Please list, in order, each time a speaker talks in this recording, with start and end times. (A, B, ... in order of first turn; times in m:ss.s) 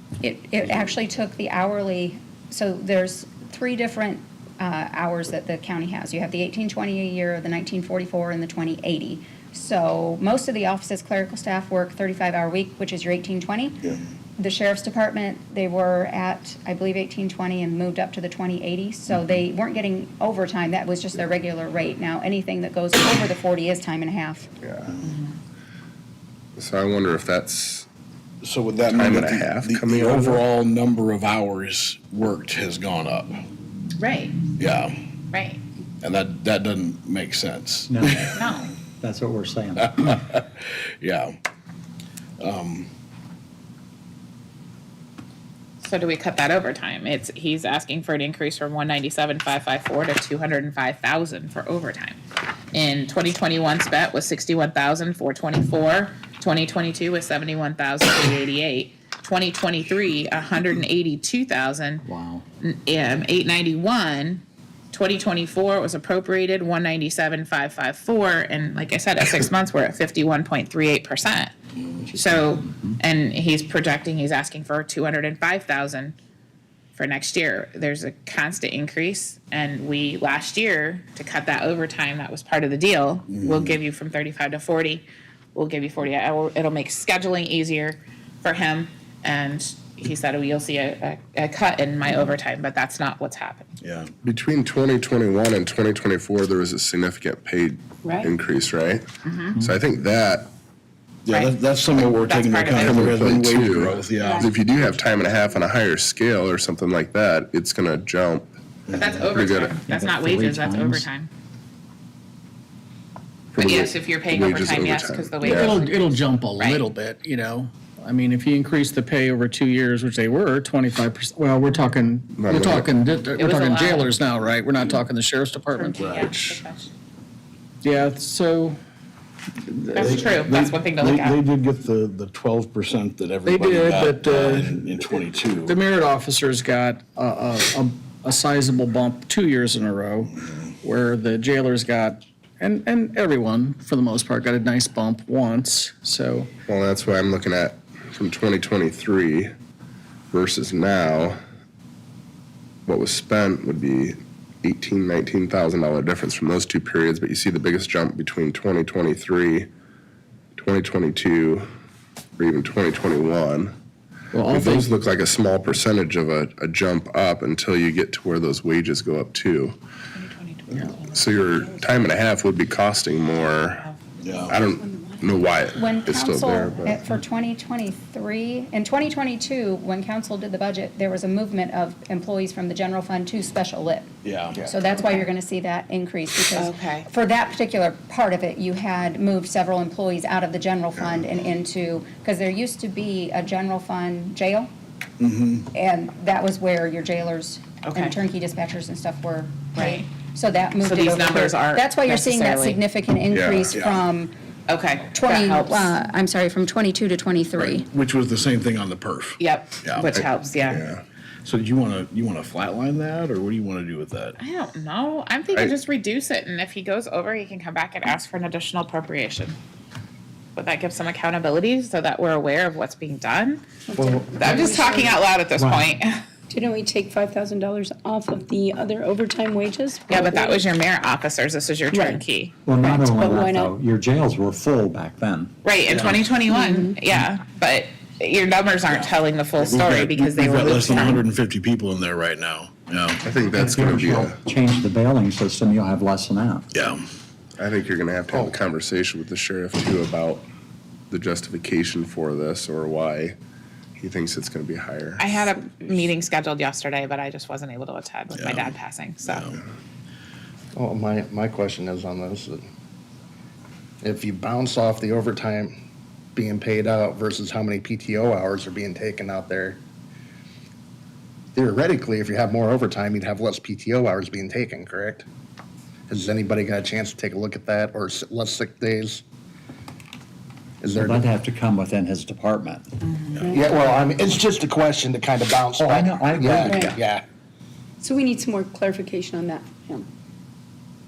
0:00.2-0:24.5 A
0:24.6-0:25.0 B
0:25.0-0:25.3 C
0:26.6-0:27.9 B
0:28.4-0:33.4 D
0:28.9-0:30.4 B
0:34.0-0:34.4 C
0:34.6-0:35.0 D
0:35.3-0:35.6 C
0:36.0-0:38.4 D
0:37.9-0:38.4 E
0:38.4-0:38.7 C
0:39.0-0:40.1 E
0:39.8-0:41.4 D
0:42.4-0:42.9 D
0:45.8-0:52.2 C
0:52.7-1:02.0 C
1:02.0-1:02.4 E
1:02.6-1:11.5 C
1:12.0-1:13.0 E
1:12.2-1:16.2 C
1:17.0-1:33.7 C
1:23.3-1:23.8 D
1:33.8-1:34.1 D
1:34.2-1:40.5 B
1:39.2-1:39.6 C
1:41.2-1:44.5 D
1:41.3-1:43.4 C
1:42.8-1:48.5 B
1:48.9-1:51.3 C
1:49.3-1:49.8 B
1:49.8-1:51.1 E
1:53.5-1:55.8 B
1:53.6-1:56.8 C
1:55.4-2:06.5 F
2:02.3-2:02.9 B
2:03.4-2:04.1 C
2:05.7-2:06.9 C
2:06.0-2:06.6 D
2:07.8-2:08.8 F
2:09.6-2:10.1 F
2:10.0-2:11.4 C
2:10.0-2:15.8 D
2:13.4-2:14.8 F
2:15.6-2:26.5 F
2:26.7-2:29.5 B
2:30.3-2:31.4 B
2:32.9-2:39.7 B
2:40.6-2:41.7 B
2:42.4-2:43.7 B
2:44.3-2:44.9 F
2:44.4-2:49.8 B
2:50.2-2:52.0 C
2:51.1-2:53.9 B
2:53.7-2:54.0 C
2:54.2-2:54.6 D
2:54.5-2:57.0 B
2:55.7-3:04.1 A
3:04.2-3:04.6 D
3:04.6-3:14.7 A
3:06.6-3:07.1 C
3:15.2-3:15.7 D
3:15.7-3:24.3 A
3:17.8-3:18.2 C
3:19.8-3:20.0 C
3:20.8-3:22.8 C
3:23.3-3:23.7 B
3:23.7-3:24.0 D
3:24.7-3:26.0 C
3:25.1-3:27.9 A
3:27.6-3:30.1 D
3:29.4-3:30.8 C
3:30.1-3:31.0 B
3:31.4-3:34.4 D
3:34.4-3:39.6 C
3:40.6-3:43.6 C
3:43.9-3:45.1 G
3:44.0-3:44.4 E
3:44.3-3:46.2 C
3:45.6-3:45.9 E
3:46.5-3:50.6 G
3:50.1-3:53.0 C
3:51.9-3:52.2 G
3:52.6-3:55.9 E
3:53.1-3:53.7 G
3:55.6-4:01.3 C
3:56.5-3:57.0 G
3:58.8-4:03.2 D
4:03.2-4:04.4 B
4:03.5-4:06.7 E
4:06.7-4:07.1 D
4:07.6-4:10.5 B
4:11.1-4:13.4 B
4:14.0-4:15.3 B
4:15.2-4:19.6 C
4:18.3-4:18.7 D
4:20.7-4:22.6 H
4:24.0-4:25.7 H
4:26.4-4:29.8 H
4:31.6-4:35.3 H
4:36.1-4:39.2 H
4:40.8-4:41.2 H
4:40.9-4:42.9 E
4:43.6-4:47.2 H
4:45.8-4:47.0 E
4:48.0-4:50.0 G